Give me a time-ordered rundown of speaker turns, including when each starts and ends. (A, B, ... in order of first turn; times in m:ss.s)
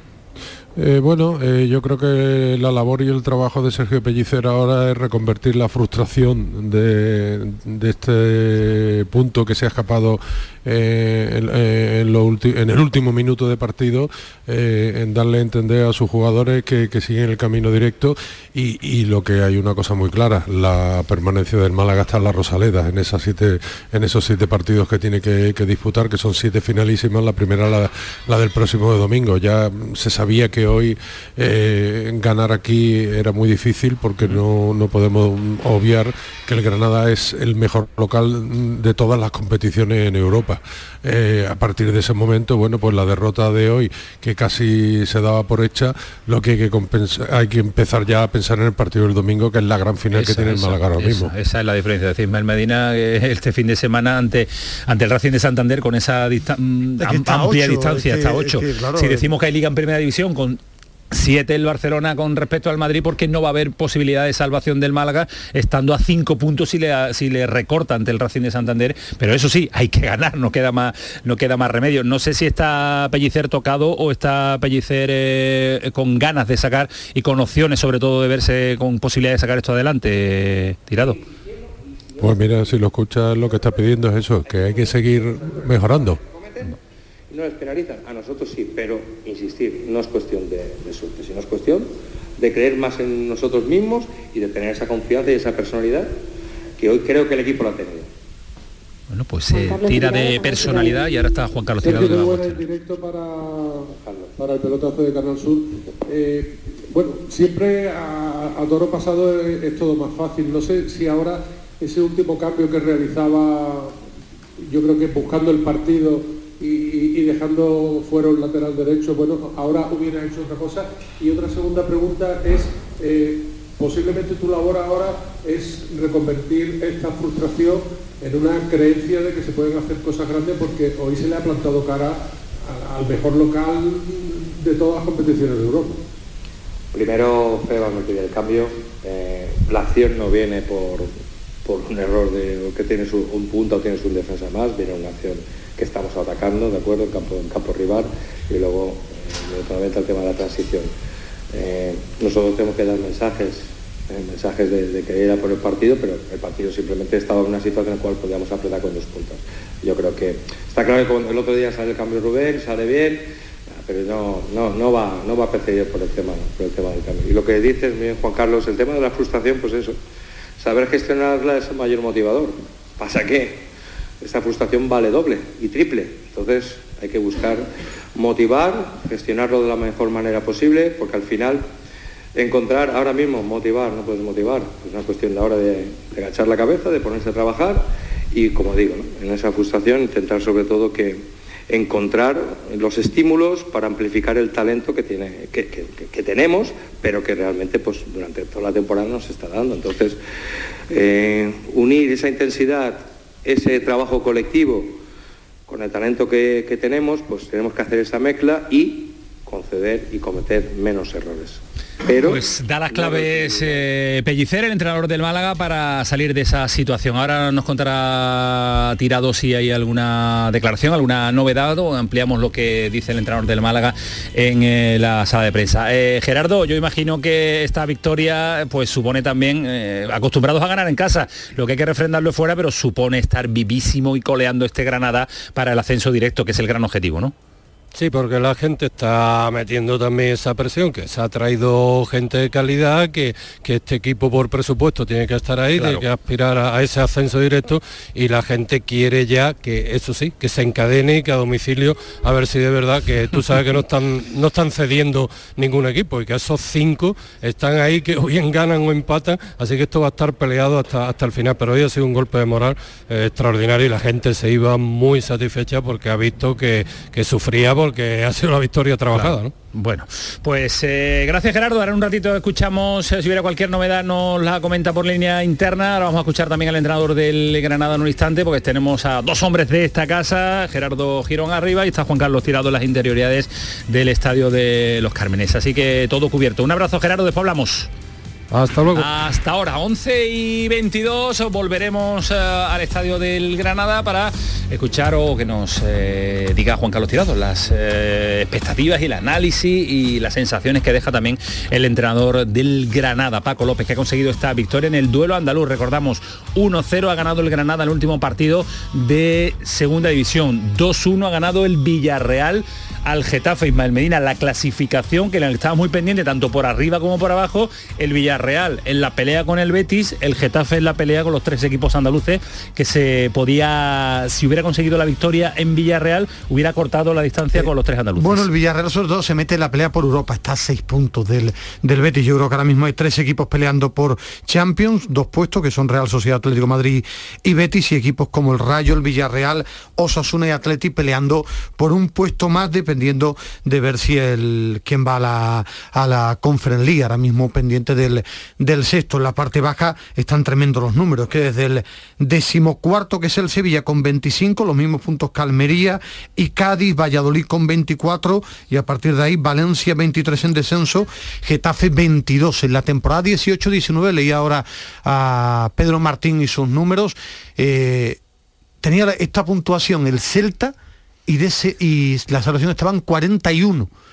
0:00.8-0:51.3 A
0:50.1-1:21.2 B
0:57.0-0:59.3 C
1:22.2-1:26.2 A
1:26.3-1:26.7 D
1:27.3-1:36.1 D
1:36.8-1:38.1 D
1:39.1-1:42.6 B
1:39.6-1:41.0 E
1:41.8-1:53.9 E
1:43.9-1:44.4 D
1:54.7-2:16.0 E
2:16.9-2:21.1 D
2:21.6-2:30.9 D
2:31.5-2:43.2 D
2:43.8-2:50.0 D
2:50.6-2:53.6 D
2:54.2-3:01.6 D
3:02.4-3:20.2 D
3:20.9-3:25.0 D
3:25.7-3:33.8 D
3:32.2-3:57.3 B
3:57.9-4:29.5 F
4:05.7-4:06.0 B
4:29.1-4:47.9 B
4:48.5-4:49.1 F
4:48.9-5:28.5 B
5:27.5-6:08.2 C
6:08.8-6:10.7 C
6:11.3-6:13.9 C